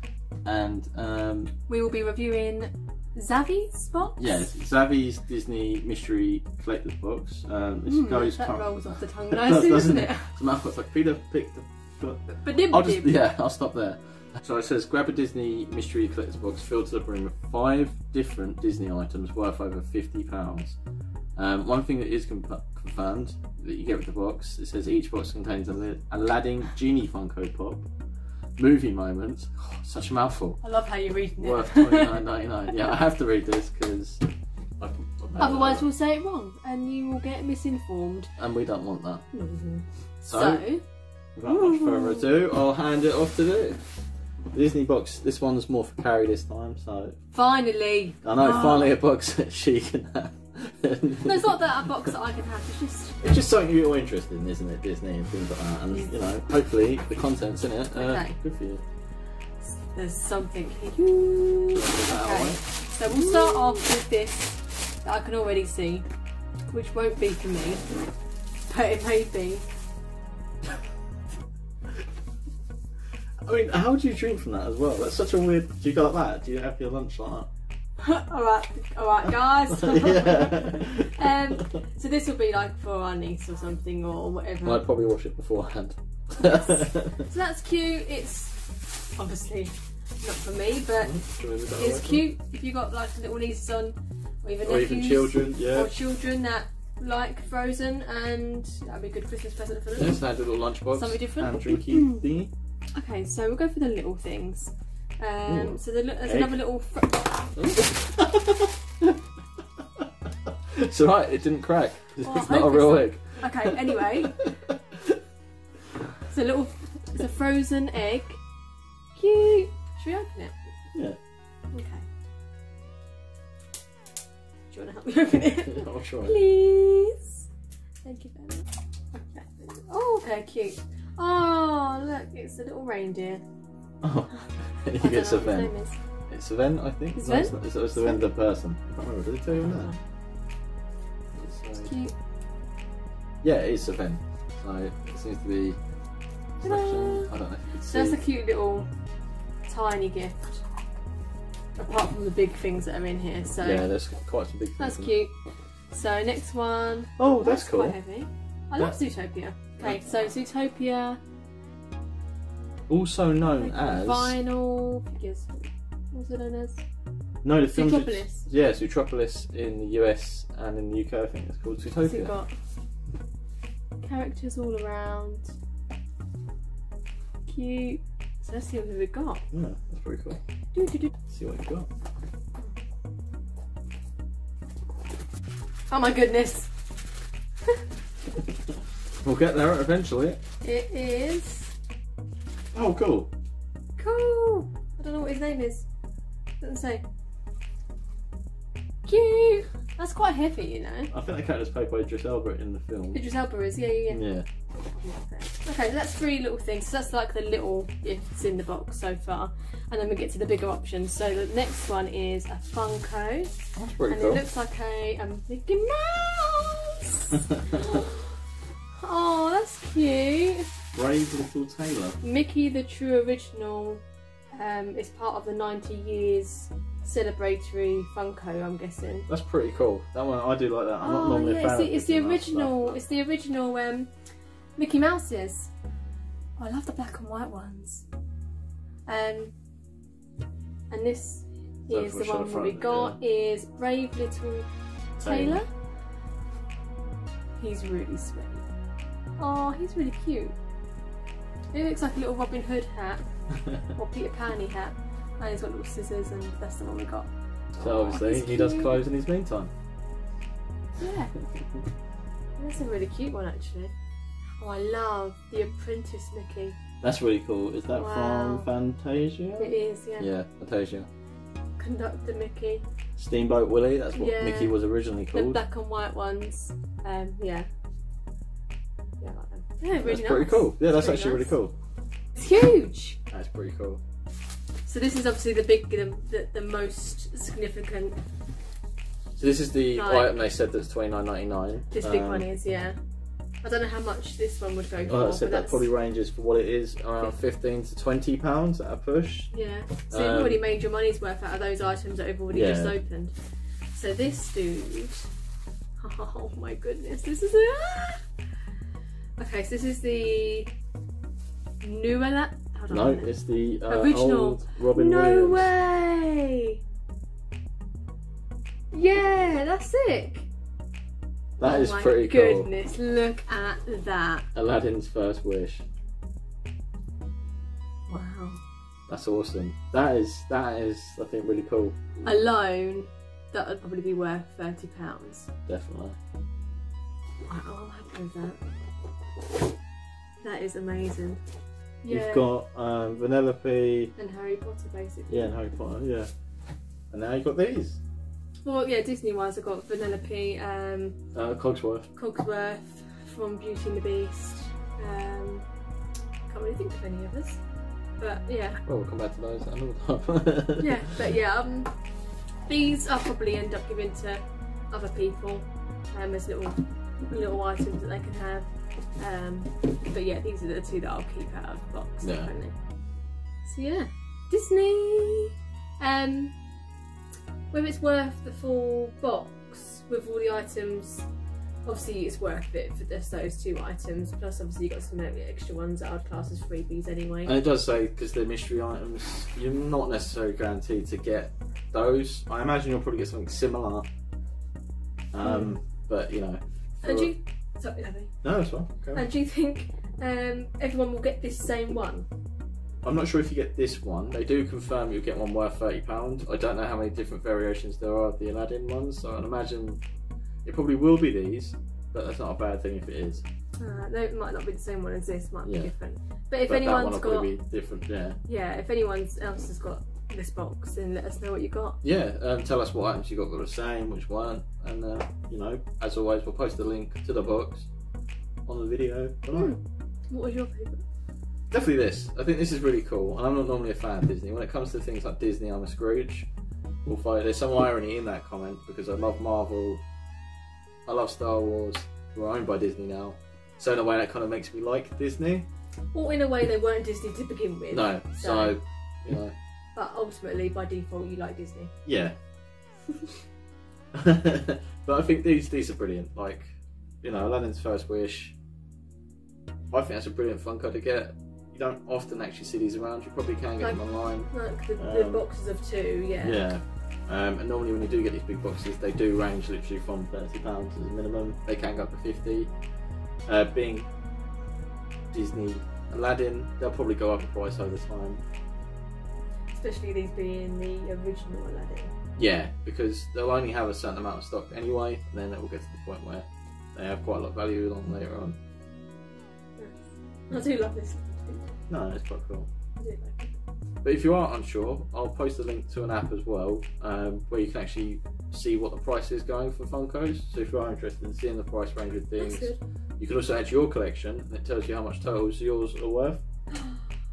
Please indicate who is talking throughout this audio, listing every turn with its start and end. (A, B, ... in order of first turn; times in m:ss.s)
0:00.4-0:01.5 A
0:01.7-0:04.5 B
0:04.2-0:20.8 A
0:07.8-0:10.4 B
0:12.3-0:13.2 B
0:21.4-0:27.9 A
0:28.6-0:30.6 A
0:30.6-0:32.8 B
0:31.4-0:34.2 A
0:34.8-0:35.9 A
0:35.4-0:38.3 B
0:38.4-0:39.3 A
0:39.3-0:40.8 B
0:40.3-0:40.6 A
0:41.3-0:43.8 A
0:41.4-0:42.3 B
0:44.5-0:47.2 A
0:47.3-0:48.9 B
0:48.2-0:52.1 A
0:51.2-0:53.2 B
0:53.2-0:58.8 A
0:57.9-0:58.4 B
0:59.6-1:06.0 B
1:01.7-1:03.8 A
1:06.7-1:07.9 B
1:08.7-1:09.6 B
1:13.4-1:17.5 A
1:18.0-1:24.8 B
1:19.7-1:21.6 A
1:24.6-1:27.2 A
1:26.4-1:42.2 B
1:31.0-1:32.2 A
1:34.6-1:35.9 A
1:39.9-1:42.5 A
1:42.9-1:47.5 B
1:45.4-1:46.6 A
1:47.6-1:49.1 A
1:50.7-1:54.5 A
1:52.2-1:54.5 B
1:56.3-1:58.4 B
1:59.1-2:00.8 B
2:01.7-2:02.0 B
2:04.7-2:07.5 B
2:05.6-2:06.4 A
2:08.0-2:13.4 B
2:14.0-2:15.7 A
2:15.0-2:16.0 B
2:16.3-2:19.9 A
2:17.1-2:18.2 B
2:19.5-2:20.0 B
2:21.3-2:21.9 A
2:21.8-2:22.1 B
2:23.4-2:25.8 A
2:26.6-2:28.2 A
2:26.6-2:27.3 B
2:27.9-2:28.9 B
2:29.7-2:30.6 B
2:31.8-2:33.9 B
2:33.6-2:35.1 A
2:34.8-2:35.4 B
2:35.9-2:41.2 B
2:37.2-2:38.0 A
2:42.9-2:44.4 A
2:43.6-2:46.8 B
2:47.4-2:52.3 A
2:47.7-2:48.4 B
2:52.0-2:52.5 B
2:54.0-2:55.5 B
2:57.5-2:59.4 B
2:59.5-3:00.4 A
3:00.7-3:01.1 B
3:01.3-3:01.9 A
3:05.9-3:06.7 B
3:09.2-3:10.4 A
3:10.6-3:11.7 B
3:12.7-3:13.3 A
3:14.0-3:15.8 B
3:16.6-3:17.0 B
3:19.0-3:21.1 B
3:21.1-3:23.2 A
3:23.1-3:24.2 B
3:24.1-3:24.4 A
3:24.9-3:33.5 B
3:33.8-3:34.4 A
3:34.1-3:38.1 B
3:39.0-3:40.7 B
3:40.9-3:42.2 A
3:42.2-3:44.0 B
3:44.5-3:49.3 B
3:49.3-3:53.0 A
3:51.0-3:54.1 B
3:54.8-3:55.7 B
3:56.6-3:58.0 B
3:59.1-3:59.5 B
4:00.9-4:04.7 B
4:01.9-4:03.2 A
4:05.2-4:05.7 B
4:05.2-4:05.6 A
4:07.6-4:08.6 B
4:09.4-4:10.6 B
4:11.7-4:13.2 B
4:13.9-4:19.0 B
4:17.8-4:19.7 A
4:21.0-4:21.3 B
4:22.6-4:23.9 B
4:24.6-4:26.8 B
4:27.0-4:31.1 A
4:27.9-4:28.7 B
4:29.6-4:30.3 B
4:31.8-4:32.8 B
4:33.2-4:35.6 A
4:34.1-4:34.8 B
4:35.3-4:37.7 B
4:39.2-4:41.6 B
4:40.0-4:41.7 A
4:42.3-4:43.2 B
4:43.3-4:44.0 A
4:44.8-4:48.2 B
4:49.4-4:52.5 A
4:49.9-4:50.3 B
4:51.9-4:53.0 B
4:53.6-4:55.9 B
4:55.1-4:59.5 A
4:59.5-5:03.3 B
5:00.1-5:00.6 A
5:02.5-5:03.0 A
5:03.9-5:05.3 B
5:06.0-5:08.2 B
5:09.4-5:10.7 B
5:11.8-5:13.3 B
5:12.9-5:15.7 A
5:13.9-5:16.8 B
5:18.9-5:20.5 B
5:21.6-5:22.7 A
5:21.6-5:24.5 B
5:24.5-5:25.8 A
5:28.1-5:28.6 B
5:29.1-5:31.9 A
5:32.2-5:35.5 B
5:35.7-5:36.2 A
5:37.5-5:38.6 B
5:40.4-5:41.4 B
5:42.0-5:42.5 B
5:42.1-5:44.1 A
5:44.2-5:45.5 B
5:45.3-5:46.3 A
5:47.1-5:48.0 A
5:48.6-5:51.2 B
5:51.3-5:52.1 A
5:52.1-5:55.6 B
5:56.5-5:57.6 B
5:58.2-5:58.8 B
5:58.8-6:01.1 A
6:00.8-6:01.9 B
6:02.7-6:12.7 B
6:12.2-6:12.5 A
6:13.6-6:16.5 B
6:17.7-6:21.3 B
6:21.8-6:27.5 B
6:27.4-6:34.1 A
6:35.3-6:37.3 A
6:35.4-6:35.7 B
6:37.0-6:38.3 B
6:38.4-6:39.3 A
6:39.1-6:42.2 B
6:43.0-6:50.0 A
6:50.6-6:53.4 A
6:53.8-6:57.5 B
6:55.6-6:55.9 A
6:56.6-6:58.4 A
6:58.4-7:02.0 B
7:02.0-7:07.9 A
7:08.6-7:09.8 A
7:09.5-7:11.0 B
7:11.7-7:16.5 A
7:17.0-7:20.0 A
7:21.0-7:25.7 A
7:26.1-7:28.8 B
7:27.9-7:29.5 A
7:29.9-7:31.9 B
7:32.0-7:32.3 A
7:34.1-7:38.6 A
7:39.9-7:45.5 A
7:43.8-7:46.7 B
7:46.4-7:52.7 A
7:53.5-7:54.1 A
7:55.3-7:58.4 A
7:59.7-8:02.1 B
8:02.4-8:08.6 A
8:09.8-8:11.8 B
8:11.9-8:12.7 A
8:13.0-8:13.6 B
8:14.0-8:26.4 A
8:22.4-8:22.8 B
8:26.8-8:27.0 B